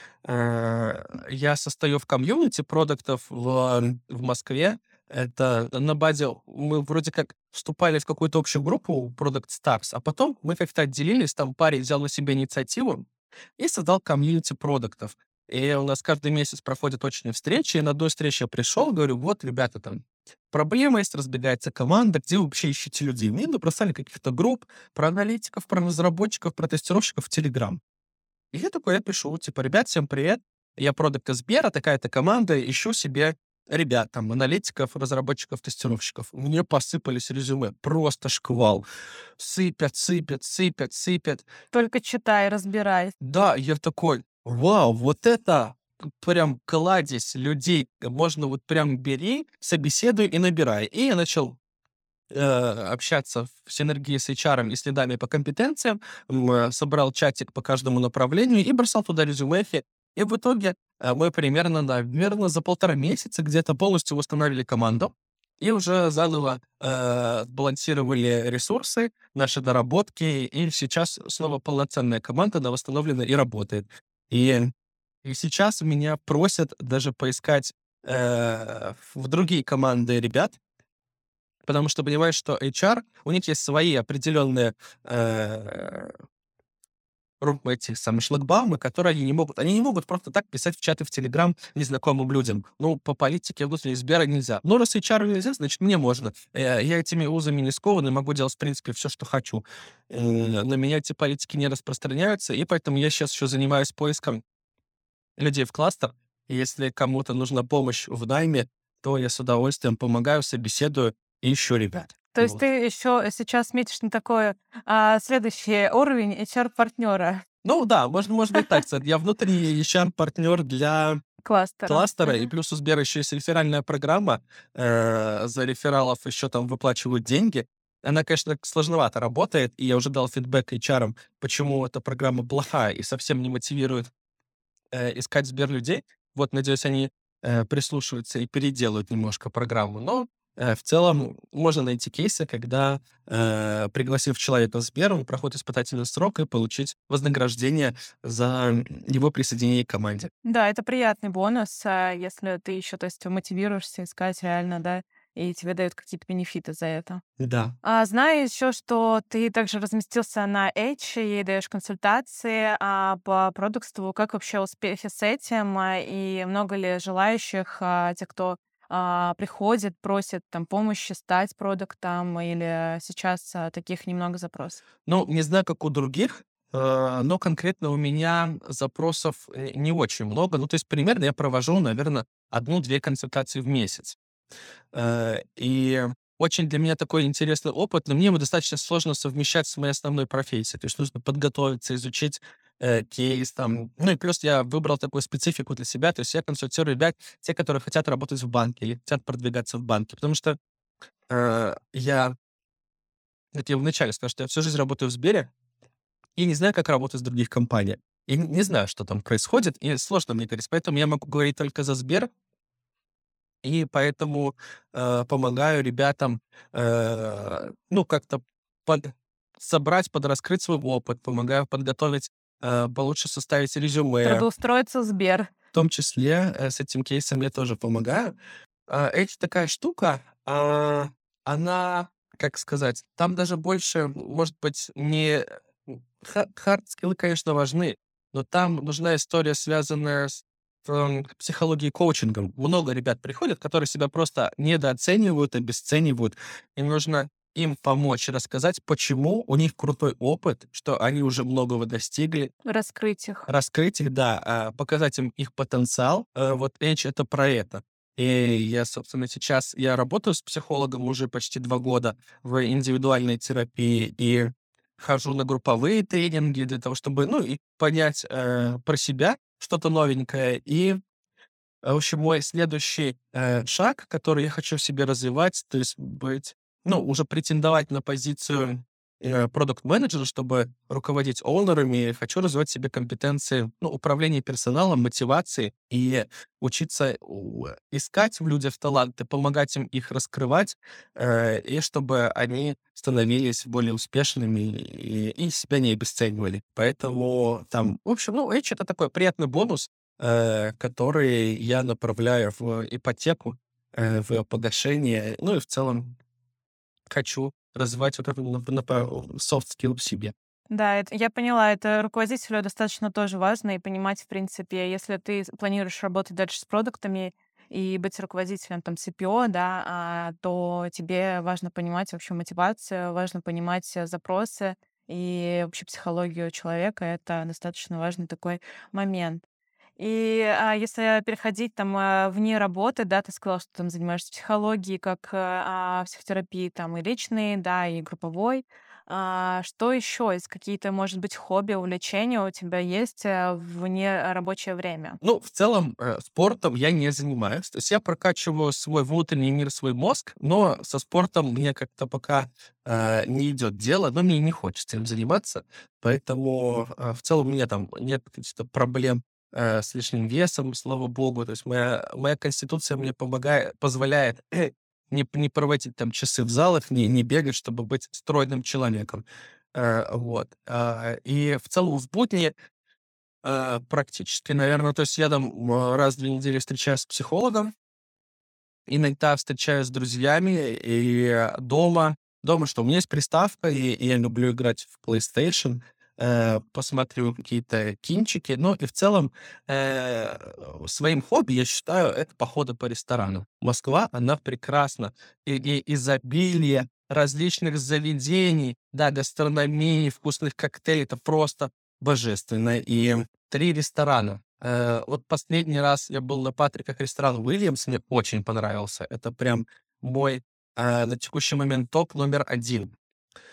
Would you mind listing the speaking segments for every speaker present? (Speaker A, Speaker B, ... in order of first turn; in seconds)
Speaker A: 0.2-13.1, 13.6-27.8, 28.5-38.9, 39.4-41.5, 43.2-51.6, 52.3-74.7, 75.2-80.6, 81.6-86.2, 87.4-104.4, 105.4-112.6, 117.6-121.2, 121.9-134.1, 134.9-150.3, 157.4-157.8, 175.1-184.2, 184.9-200.6, 201.3-202.3, 203.5-205.5, 206.4-212.3, 213.6-224.4, 225.7-228.3, 228.9-252.5, 253.5-271.0, 271.8-306.1, 307.1-310.3, 345.2-372.5, 373.4-377.7, 378.9-412.9
Speaker B: 41.7-43.1, 112.3-117.4, 121.4-122.5, 150.4-157.2, 157.8-174.8, 224.2-225.5, 252.7-253.5, 310.7-329.4, 330.0-345.2